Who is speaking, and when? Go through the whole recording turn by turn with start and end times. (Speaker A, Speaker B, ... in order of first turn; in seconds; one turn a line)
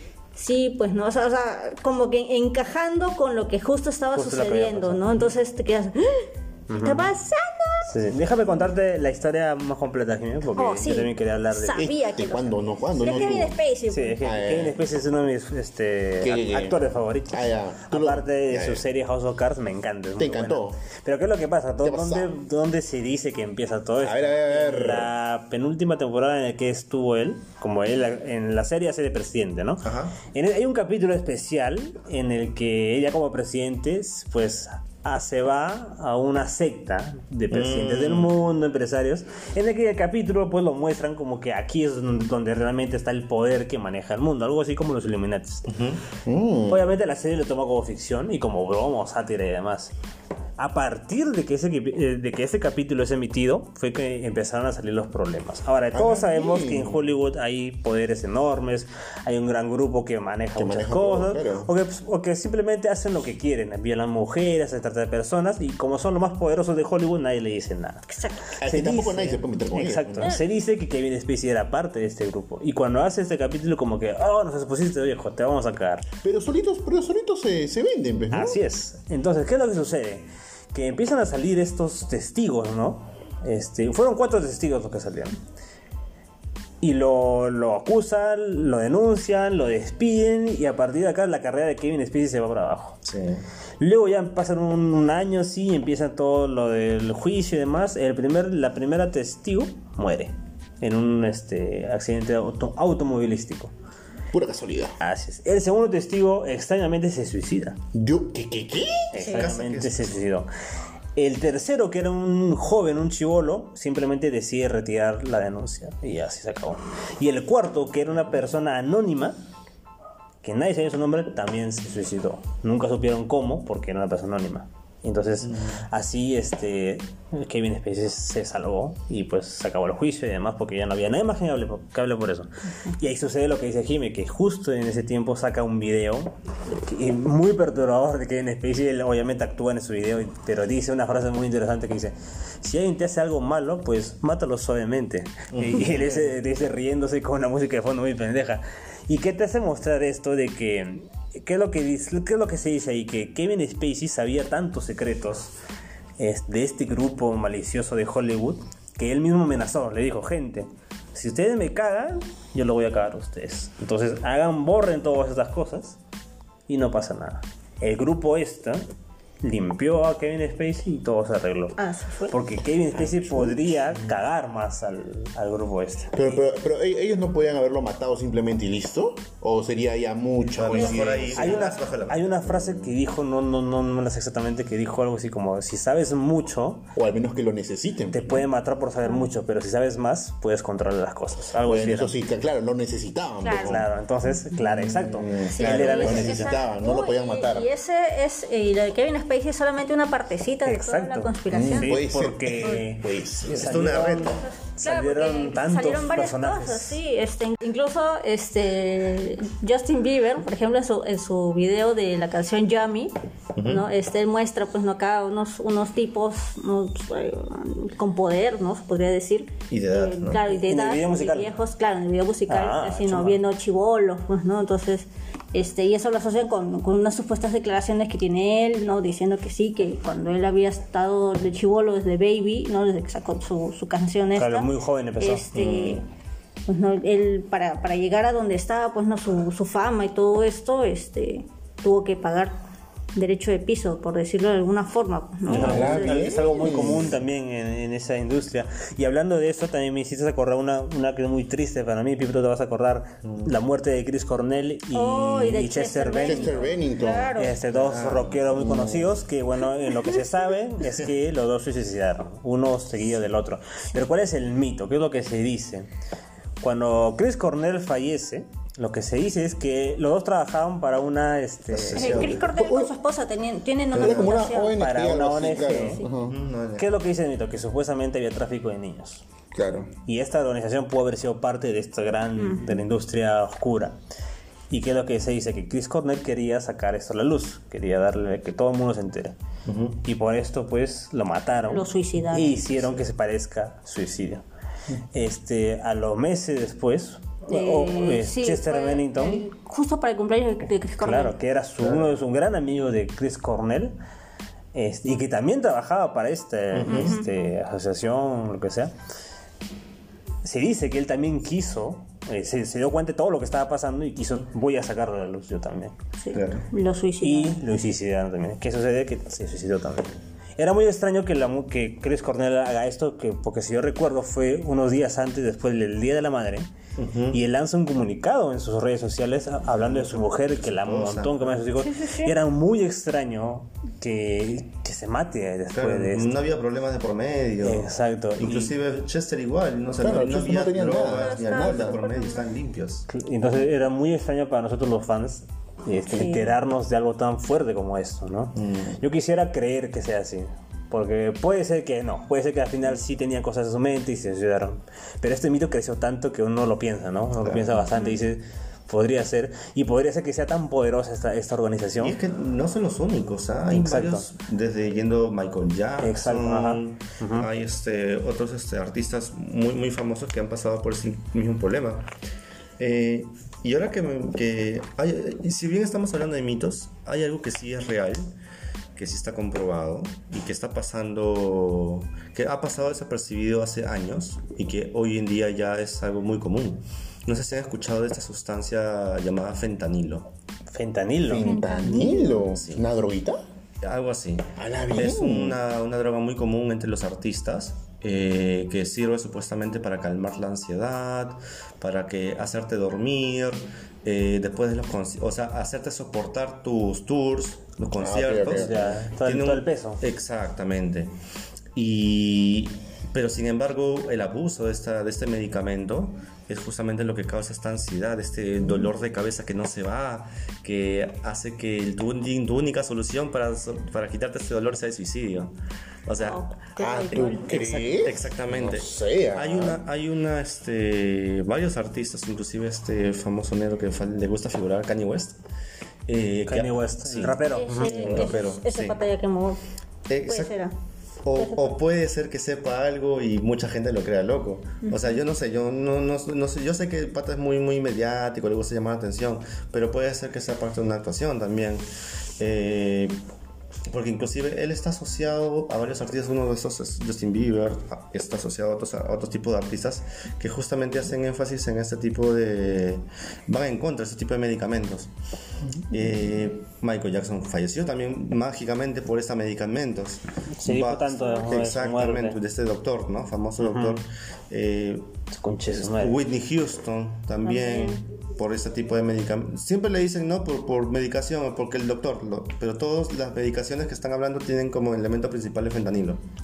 Speaker A: 0.3-7.9
Speaker B: 4.1-5.2
Speaker B: 6.7-7.1
Speaker B: 7.8-11.9
Speaker A: 10.6-14.2
Speaker C: 11.7-13.6
Speaker B: 13.9-45.7
Speaker C: 14.2-14.8
Speaker C: 16.2-18.8
Speaker C: 20.2-20.8
Speaker C: 21.8-22.3
Speaker C: 24.0-25.1
Speaker D: 29.8-30.2
Speaker D: 37.5-38.3
Speaker D: 45.7-46.0
Speaker C: 46.2-46.9
Speaker B: 46.7-49.9
Speaker B: 50.6-68.0
Speaker C: 55.9-57.1
Speaker C: 60.5-61.7
Speaker A: 68.1-68.5
Speaker C: 68.6-70.3
Speaker B: 68.6-76.0
Speaker C: 76.2-78.6
Speaker B: 78.3-85.4
Speaker B: 86.8-93.0
Speaker D: 93.0-93.4
Speaker B: 93.8-103.7
Speaker C: 104.3-105.0
Speaker B: 105.0-107.8
Speaker C: 107.9-109.2
Speaker B: 109.1-110.5
Speaker D: 109.2-110.2
Speaker B: 111.2-119.4
Speaker B: 120.4-155.5
Speaker D: 125.5-125.8
Speaker D: 145.5-146.2
Speaker B: 156.2-166.0
Speaker B: 166.7-168.8
Speaker B: 169.4-176.4
Speaker A: 171.8-172.3
Speaker C: 172.9-173.8
Speaker C: 176.1-181.6
Speaker D: 180.5-182.3
Speaker A: 180.7-181.6
Speaker B: 181.3-186.9
Speaker C: 182.4-182.9
Speaker C: 186.9-188.5
Speaker B: 188.1-192.2
Speaker C: 191.6-197.7
Speaker A: 193.4-193.8
Speaker B: 193.6-196.6
Speaker A: 195.5-202.0
Speaker B: 200.6-207.0
Speaker C: 201.5-203.8
Speaker D: 203.5-204.4
Speaker A: 204.4-236.1
Speaker D: 213.6-213.9
Speaker D: 219.7-220.6
Speaker B: 220.7-221.5
Speaker B: 222.5-223.4
Speaker B: 234.3-235.5
Speaker D: 235.5-236.0
Speaker A: 236.7-242.5
Speaker A: 243.1-246.4
Speaker B: 245.5-256.6
Speaker C: 245.5-247.2
Speaker D: 245.5-245.9
Speaker D: 253.2-253.5
Speaker A: 254.9-257.5
Speaker C: 256.2-259.2
Speaker B: 257.4-265.9
Speaker D: 257.8-258.4
Speaker B: 266.6-272.3
Speaker D: 271.7-272.5
Speaker A: 271.9-274.8
Speaker C: 272.3-272.9
Speaker D: 273.9-274.4
Speaker C: 273.9-276.4
Speaker B: 274.8-276.0
Speaker A: 275.7-276.1
Speaker D: 276.3-276.9
Speaker B: 276.8-279.2
Speaker C: 279.5-279.9
Speaker B: 280.1-284.0
Speaker A: 282.4-282.8
Speaker B: 284.7-289.3
Speaker D: 289.6-290.0
Speaker B: 290.0-294.4
Speaker A: 291.7-292.6
Speaker B: 295.1-299.4
Speaker A: 297.5-301.4
Speaker B: 301.0-304.0
Speaker B: 304.7-308.9
Speaker D: 306.7-307.2
Speaker A: 306.9-307.3
Speaker B: 310.4-315.9
Speaker A: 316.2-317.6
Speaker D: 316.3-316.7
Speaker B: 317.2-326.7
Speaker D: 327.0-327.4
Speaker B: 327.3-336.3
Speaker D: 329.7-331.6
Speaker A: 331.8-332.4
Speaker D: 335.7-343.1
Speaker B: 337.6-338.7
Speaker C: 340.0-342.0
Speaker A: 341.0-342.5
Speaker B: 343.1-362.2
Speaker A: 346.1-346.5
Speaker D: 348.5-349.0
Speaker D: 357.4-357.8
Speaker A: 357.9-358.2
Speaker D: 362.0-372.1
Speaker B: 363.7-364.2
Speaker B: 366.0-367.5
Speaker D: 372.8-378.3
Speaker D: 378.9-390.3
Speaker B: 390.7-391.5
Speaker C: 391.2-393.4
Speaker A: 391.4-392.4
Speaker D: 392.5-392.9
Speaker D: 393.8-411.1
Speaker C: 394.6-395.6
Speaker C: 408.0-408.8
Speaker B: 408.5-410.0
Speaker D: 411.7-425.5
Speaker D: 426.1-426.5
Speaker A: 426.2-427.5
Speaker C: 426.8-429.8
Speaker D: 427.1-435.4
Speaker D: 436.1-439.0
Speaker B: 436.5-438.3
Speaker A: 437.5-439.6
Speaker D: 440.1-440.5
Speaker A: 440.2-440.7
Speaker D: 441.2-451.9
Speaker A: 441.4-441.8
Speaker A: 444.8-445.2
Speaker D: 452.4-453.2
Speaker D: 453.9-465.1
Speaker D: 465.9-475.1
Speaker B: 470.6-472.4
Speaker B: 473.6-474.0
Speaker B: 475.3-476.2
Speaker D: 475.7-486.2
Speaker A: 477.4-478.0